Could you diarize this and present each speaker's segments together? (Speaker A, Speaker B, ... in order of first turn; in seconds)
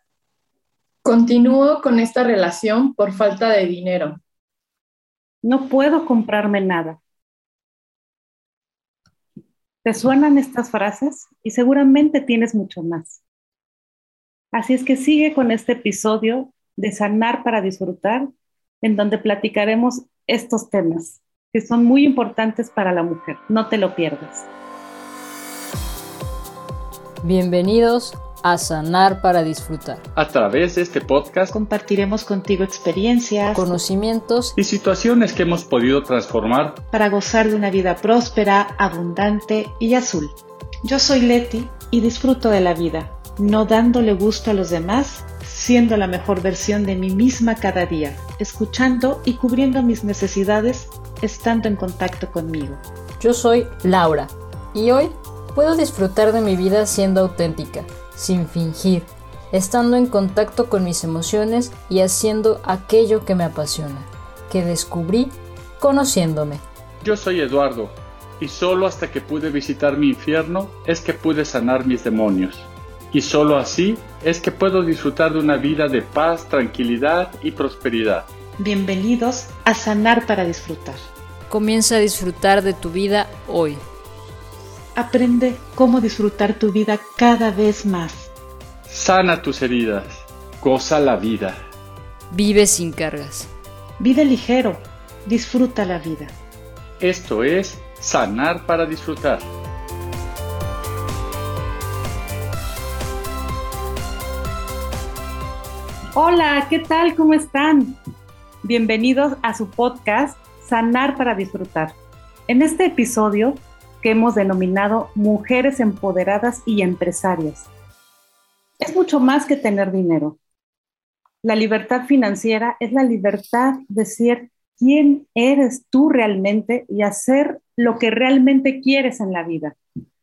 Speaker A: 1.0-4.2
Speaker B: 5.4-7.0, 9.8-13.2, 14.5-18.3, 18.8-24.5, 106.2-108.0, 108.6-111.9, 112.5-117.7, 118.8-120.4, 121.4-129.8
Speaker C: 27.2-30.0, 33.5-34.5, 53.2-66.6, 81.5-83.8, 92.3-93.5
Speaker D: 30.1-31.5, 34.5-36.8, 67.0-78.3, 88.9-91.6, 97.0-99.5
Speaker E: 31.5-33.7, 36.9-52.8, 78.6-81.0, 84.9-88.3, 94.0-96.3